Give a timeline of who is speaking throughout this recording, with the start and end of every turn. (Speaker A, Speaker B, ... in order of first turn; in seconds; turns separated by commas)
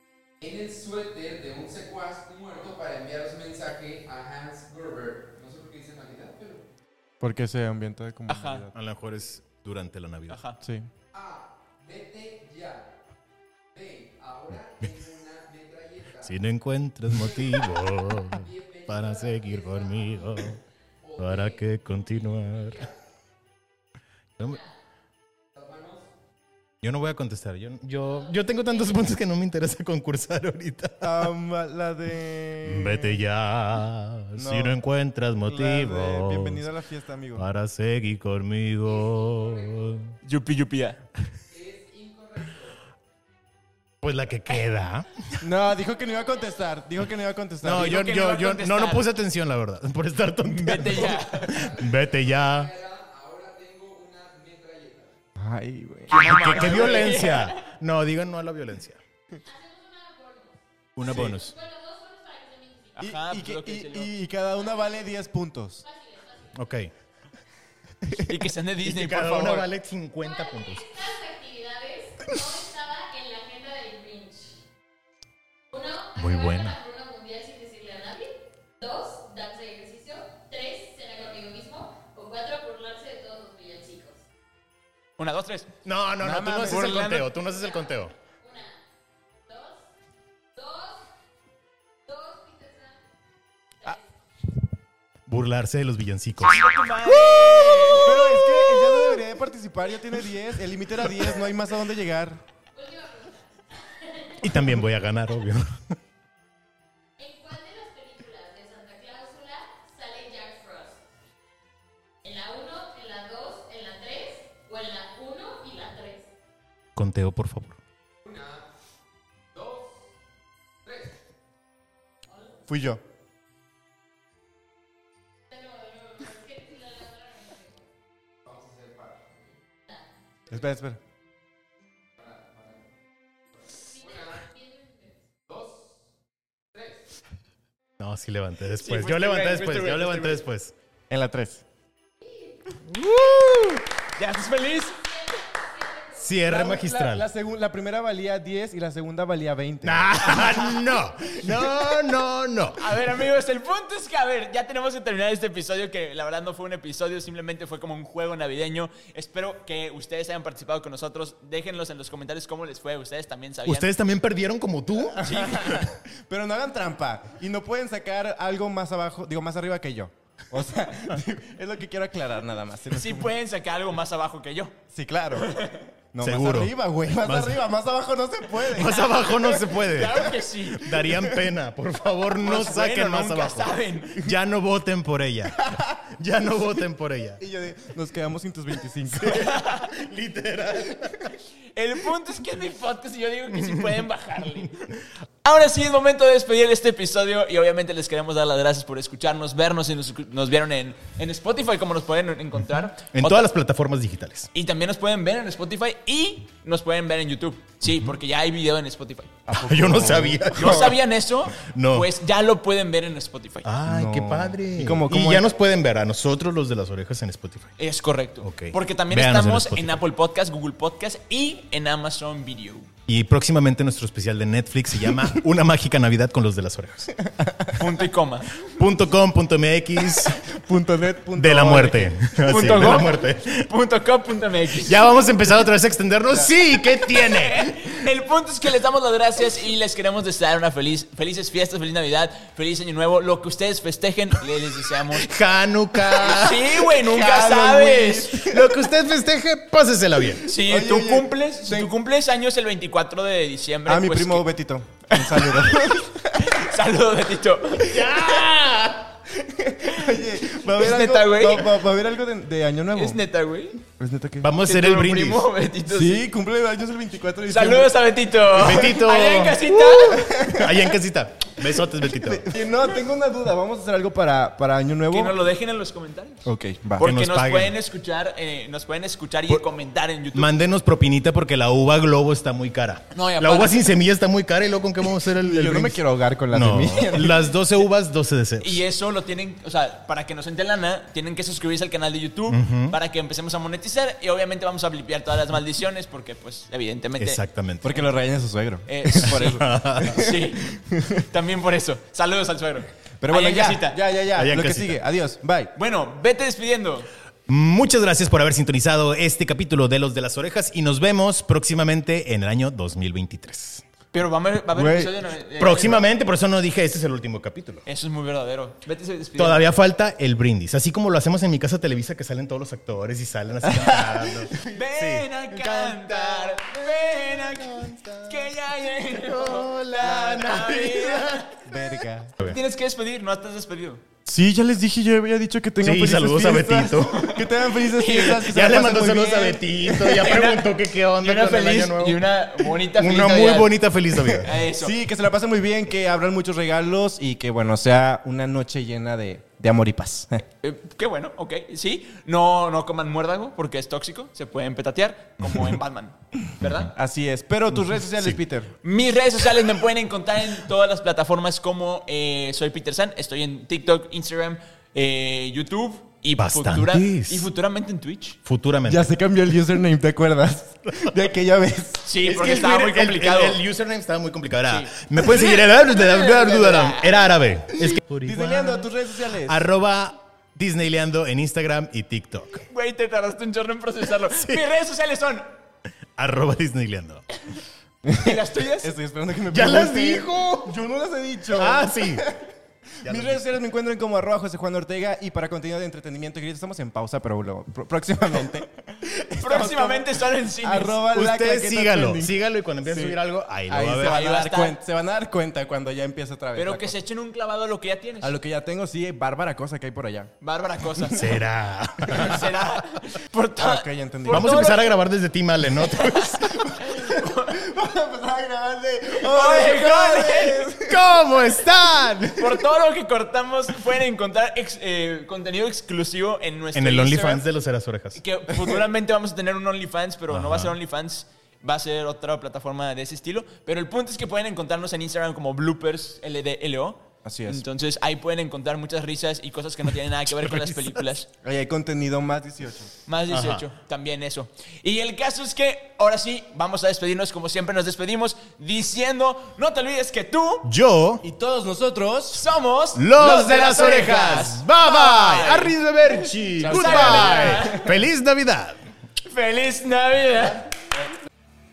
Speaker A: 0.4-6.6, Speaker B: 7.2-8.7, Speaker C: 8.3-8.7, Speaker D: 8.7-10.4, Speaker C: 10.3-10.6, Speaker B: 10.6-10.9, Speaker A: 11.1-12.9, Speaker A: 13.7-16.3, Speaker D: 16.2-20.6, Speaker A: 17.2-22.9, Speaker D: 21.2-22.9, Speaker E: 24.4-24.8, Speaker A: 25.5-26.1, Speaker D: 26.8-31.1, Speaker E: 28.0-29.1, Speaker B: 31.0-33.2, Speaker D: 32.6-36.6, Speaker B: 34.3-34.8, Speaker B: 35.5-37.5, Speaker D: 37.3-40.1, Speaker A: 38.9-40.0, Speaker C: 40.2-41.0, Speaker A: 41.5-42.8, Speaker D: 44.0-45.5, Speaker B: 45.4-48.0, Speaker E: 45.8-46.8, Speaker D: 47.6-52.7, Speaker C: 47.6-49.0, Speaker C: 50.4-51.6, Speaker A: 51.1-55.1, Speaker B: 55.4-57.0, Speaker C: 56.1-57.7, Speaker D: 56.3-59.0, Speaker E: 59.4-63.1, Speaker D: 61.0-61.5, Speaker C: 61.0-61.3, Speaker C: 63.0-64.1, Speaker B: 63.0-65.8, Speaker E: 64.5-65.2, Speaker E: 65.8-66.8, Speaker D: 66.5-66.9, Speaker C: 68.1-69.7, Speaker D: 68.8-70.9, Speaker E: 70.2-74.6, Speaker E: 75.7-84.2, Speaker D: 76.2-76.8, Speaker C: 85.2-87.3, Speaker D: 85.8-88.1, Speaker B: 86.6-87.0, Speaker E: 88.4-88.8, Speaker E: 89.5-89.9, Speaker E: 90.5-91.1, Speaker E: 92.0-93.1, Speaker E: 93.8-94.1, Speaker D: 95.3-96.7, Speaker C: 96.4-99.0, Speaker B: 97.3-102.4, Speaker E: 102.7-104.6, Speaker D: 104.4-105.7, Speaker E: 107.2-111.0, Speaker E: 112.2-116.3, Speaker D: 116.9-117.8, Speaker A: 118.2-118.7, Speaker A: 119.5-120.1, Speaker A: 120.8-121.2, Speaker E: 122.3-122.7, Speaker B: 122.7-123.0, Speaker E: 125.5-127.9, Speaker A: 128.4-129.6, Speaker B: 130.5-131.0, Speaker A: 132.2-132.8, Speaker A: 133.5-134.4, Speaker E: 133.9-135.2, Speaker A: 135.5-136.1, Speaker A: 136.7-137.1, Speaker D: 138.0-140.7, Speaker C: 138.8-140.4, Speaker B: 141.1-141.6, Speaker E: 142.2-142.5, Speaker D: 142.9-143.8, Speaker C: 144.2-145.0, Speaker E: 144.8-146.5, Speaker D: 146.1-147.2, Speaker B: 146.4-150.6, Speaker D: 149.8-152.9, Speaker C: 152.8-163.9, Speaker D: 163.6-165.2, Speaker B: 165.1-173.3, Speaker C: 165.2-165.8, Speaker C: 172.9-174.7, Speaker B: 174.9-175.6, Speaker C: 175.3-175.9, Speaker B: 176.1-179.2, Speaker D: 176.2-177.6, Speaker D: 178.7-187.4, Speaker C: 178.9-181.1, Speaker B: 181.1-181.3, Speaker C: 182.4-184.3, Speaker B: 185.6-186.0, Speaker B: 187.4-189.6, Speaker D: 189.1-191.3, Speaker C: 189.3-189.9, Speaker B: 191.0-191.3, Speaker C: 191.7-203.5, Speaker D: 203.1-204.5, Speaker C: 204.5-209.4, Speaker B: 209.5-211.0, Speaker D: 209.6-211.0, Speaker C: 210.5-213.7, Speaker D: 211.6-212.1, Speaker D: 213.6-217.7, Speaker B: 213.8-215.4, Speaker C: 217.8-222.9, Speaker D: 218.4-220.0, Speaker D: 223.1-227.2, Speaker B: 227.3-227.7, Speaker C: 227.7-228.7, Speaker D: 228.7-230.4, Speaker B: 230.4-232.7, Speaker D: 231.4-233.7, Speaker C: 232.4-235.1, Speaker D: 234.8-237.8, Speaker C: 236.9-245.3, Speaker D: 245.1-246.8, Speaker C: 246.0-248.4, Speaker B: 246.9-248.8, Speaker D: 248.4-250.4, Speaker C: 250.4-254.4, Speaker B: 250.5-251.9, Speaker B: 253.8-256.7, Speaker C: 255.1-259.0, Speaker B: 259.3-263.2, Speaker C: 259.9-261.8, Speaker C: 262.9-263.8, Speaker B: 264.0-264.5, Speaker D: 264.4-265.5, Speaker C: 264.6-266.3, Speaker B: 265.9-267.9, Speaker C: 267.5-270.3, Speaker D: 268.5-272.4, Speaker B: 269.7-271.0, Speaker B: 272.0-275.4, Speaker C: 275.1-276.4, Speaker B: 276.4-277.1, Speaker C: 277.0-280.5, Speaker D: 277.0-277.7, Speaker D: 280.3-288.8, Speaker C: 283.1-283.9, Speaker B: 285.4-287.4, Speaker C: 287.0-287.4, Speaker C: 288.6-297.4, Speaker D: 292.5-292.9, Speaker D: 297.2-297.9, Speaker B: 297.8-301.2, Speaker C: 298.9-304.0, Speaker D: 299.4-300.2, Speaker B: 303.2-305.7, Speaker D: 304.3-305.0, Speaker C: 305.8-307.1, Speaker D: 307.5-313.8, Speaker C: 314.1-316.0, Speaker B: 314.7-315.1, Speaker D: 315.6-317.8, Speaker C: 317.8-319.7, Speaker D: 319.4-328.5, Speaker C: 324.0-331.6, Speaker D: 329.2-331.5, Speaker B: 330.0-330.4, Speaker B: 331.6-332.3, Speaker C: 332.4-334.0, Speaker B: 334.2-340.4, Speaker D: 335.8-337.3, Speaker C: 337.1-338.5, Speaker D: 338.3-344.5, Speaker C: 340.2-344.9, Speaker B: 344.6-350.4, Speaker C: 350.6-356.9, Speaker D: 355.4-355.7, Speaker B: 356.9-358.7, Speaker C: 358.8-368.4, Speaker D: 366.4-367.5, Speaker D: 368.4-369.1, Speaker B: 368.8-372.1, Speaker C: 372.0-373.6, Speaker D: 372.2-378.9, Speaker C: 374.7-377.8, Speaker B: 377.9-379.6, Speaker D: 379.4-382.6, Speaker C: 382.5-385.5, Speaker D: 384.3-384.6, Speaker D: 386.2-387.2, Speaker B: 388.0-392.4, Speaker C: 388.2-388.9, Speaker D: 389.5-390.7, Speaker D: 391.5-392.3, Speaker B: 393.0-400.1, Speaker D: 393.0-393.4, Speaker C: 399.3-401.0, Speaker B: 400.6-406.9, Speaker D: 401.1-404.2, Speaker C: 404.0-404.8, Speaker C: 406.6-408.4, Speaker B: 408.2-410.3, Speaker C: 410.4-411.4, Speaker D: 411.1-412.5, Speaker C: 412.0-415.0, Speaker B: 413.6-414.8, Speaker D: 414.3-416.7, Speaker C: 415.7-417.6, Speaker B: 416.8-421.3, Speaker C: 419.2-420.7, Speaker D: 420.9-422.5, Speaker C: 422.3-427.4, Speaker D: 426.7-428.2, Speaker C: 428.1-441.3, Speaker D: 430.3-430.8, Speaker B: 437.2-437.6, Speaker B: 441.4-442.9, Speaker C: 443.1-450.7, Speaker D: 443.3-443.6, Speaker D: 450.6-451.2, Speaker B: 451.2-452.4, Speaker C: 452.3-458.0, Speaker D: 452.9-458.8, Speaker B: 456.6-457.8, Speaker C: 459.2-460.7